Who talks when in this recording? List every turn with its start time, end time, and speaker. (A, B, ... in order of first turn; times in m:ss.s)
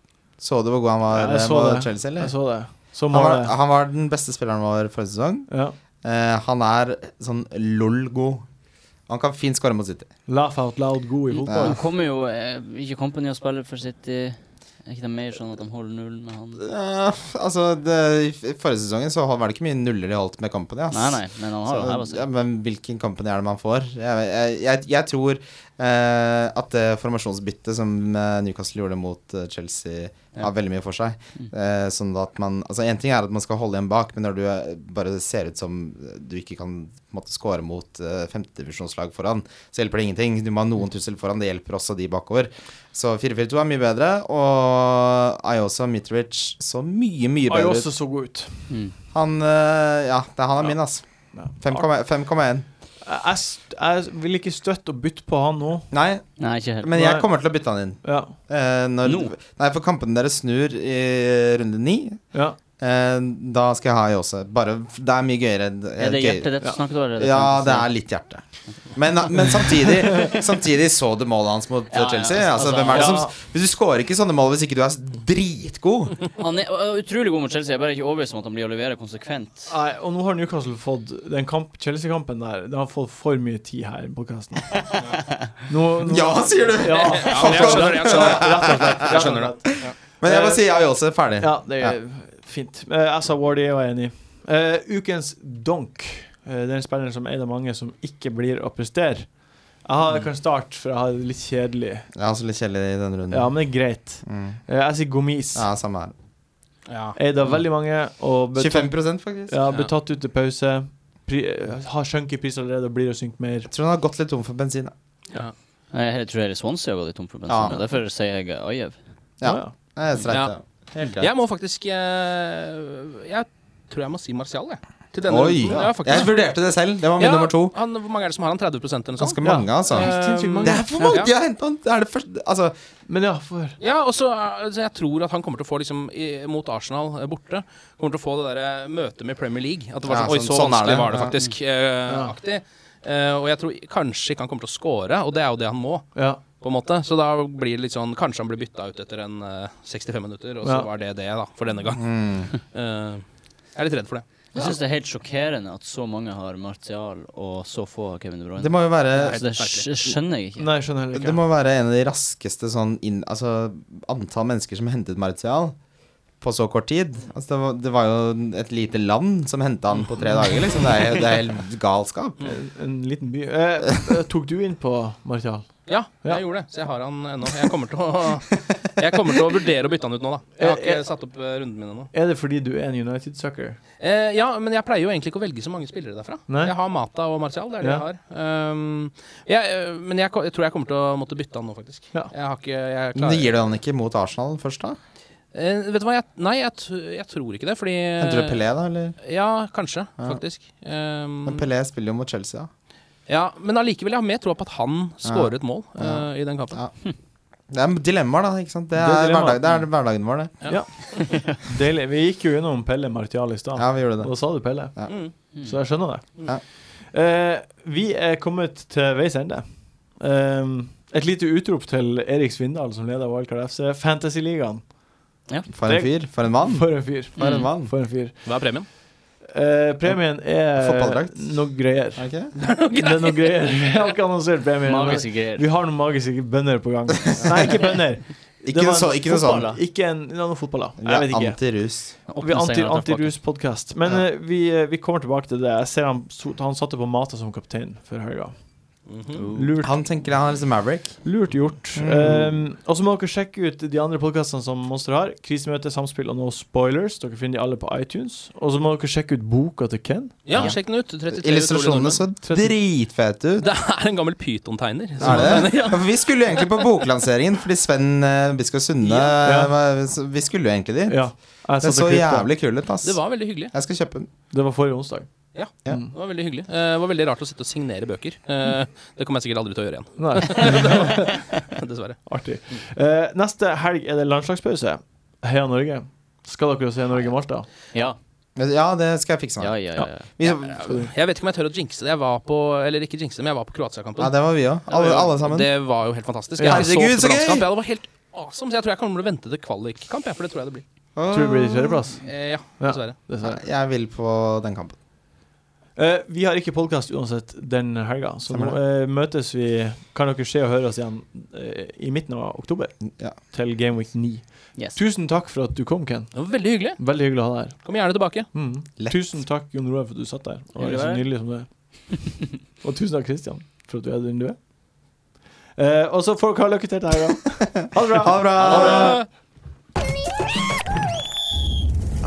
0:00.4-0:05.5 A
0:01.1-0:03.5 B
0:05.5-0:05.8 B
0:06.0-0:08.4 A
0:09.1-0:10.1 A
0:10.3-0:11.8 B
0:11.3-0:16.6 C
0:11.5-0:11.8 A
0:16.6-0:47.9 A
0:20.9-0:22.2 C
0:47.5-0:48.7 B
0:48.7-0:49.0 C
0:49.1-0:52.7 A
0:51.3-0:51.9 B
0:53.0-0:55.9 B
0:55.9-1:02.2 A
0:56.4-0:56.9 C
0:56.9-0:57.3 B
0:58.0-0:58.3 B
0:59.0-0:59.4 C
1:02.8-1:16.2 A
1:06.0-1:07.9 C
1:09.8-1:10.4 B
1:11.9-1:13.3 C
1:12.9-1:13.3 B
1:16.4-1:19.7 C
1:19.7-1:25.0 B
1:25.7-1:30.6 B
1:26.0-1:32.0 A
1:26.9-1:30.0 D
1:31.4-1:42.1 B
1:42.2-1:44.6 A
1:43.3-1:45.7 B
1:45.6-1:46.1 A
1:46.9-1:47.2 D
1:47.2-1:53.7 B
1:48.6-1:49.7 A
1:49.7-1:50.0 D
1:53.7-1:54.9 A
1:55.9-1:59.0 C
1:57.5-1:57.8 A
1:59.4-2:01.3 A
1:59.4-1:59.7 B
2:01.1-2:06.4 D
2:05.2-2:07.7 A
2:05.7-2:05.9 B
2:07.2-2:11.3 D
2:09.2-2:12.7 A
2:09.4-2:11.2 B
2:13.1-2:13.8 B
2:13.8-2:34.2 D
2:20.1-2:21.4 A
2:22.1-2:22.4 B
2:26.2-2:26.4 B
2:30.6-2:30.9 B
2:32.0-2:32.5 A
2:34.5-2:40.7 C
2:38.6-2:39.4 A
2:39.1-2:39.9 D
2:40.6-2:41.4 B
2:41.1-2:45.8 A
2:46.4-2:52.4 A
2:52.4-2:56.4 B
2:55.9-3:02.1 D
3:00.6-3:01.0 B
3:02.1-3:03.8 B
3:04.0-3:13.5 D
3:06.5-3:06.8 B
3:13.2-3:15.0 A
3:15.5-3:18.6 D
3:18.2-3:19.2 A
3:19.2-3:21.6 D
3:21.4-3:22.7 A
3:23.3-3:26.8 D
3:25.2-3:26.9 A
3:27.7-3:30.6 A
3:29.0-3:29.6 B
3:30.6-3:31.4 D
3:30.7-3:45.0 B
3:33.8-3:35.1 A
3:35.1-3:35.3 D
3:45.7-3:47.9 A
3:45.9-3:52.3 B
3:47.4-3:47.7 C
3:48.4-3:48.9 D
3:50.1-3:52.5 A
3:52.6-3:53.7 D
3:52.9-4:01.6 B
3:54.8-3:55.6 C
3:57.3-3:57.9 A
3:58.6-3:59.8 A
4:01.0-4:02.2 A
4:02.3-4:03.4 C
4:02.4-4:08.5 B
4:09.1-4:09.4 D
4:09.3-4:09.7 C
4:09.5-4:10.0 B
4:09.8-4:11.2 A
4:11.2-4:20.7 B
4:12.0-4:12.6 A
4:20.5-4:22.2 D
4:20.5-4:23.7 A
4:22.4-4:22.7 B
4:23.6-4:26.8 D
4:25.2-4:34.3 A
4:29.0-4:29.4 D
4:29.4-4:29.7 B
4:31.1-4:32.5 B
4:33.0-4:33.7 D
4:34.5-4:35.3 B
4:35.5-4:42.2 D
4:35.9-4:36.1 B
4:40.2-4:41.3 B
4:42.3-4:47.7 B
4:48.6-4:51.0 A
4:49.6-4:50.3 C
4:50.4-4:54.4 D
4:50.9-4:51.1 B
4:54.2-4:55.7 A
4:54.9-5:00.8 D
4:56.6-4:56.9 B
4:56.6-4:57.7 A
5:01.2-5:02.1 A
5:01.3-5:02.3 B
5:02.2-5:03.2 D
5:02.8-5:03.6 B
5:03.4-5:05.0 A
5:06.0-5:24.6 B
5:08.5-5:08.8 A
5:13.1-5:13.4 A
5:16.3-5:18.5 D
5:20.8-5:21.3 C
5:25.8-5:29.2 B
5:28.0-5:29.2 A
5:28.6-5:29.3 D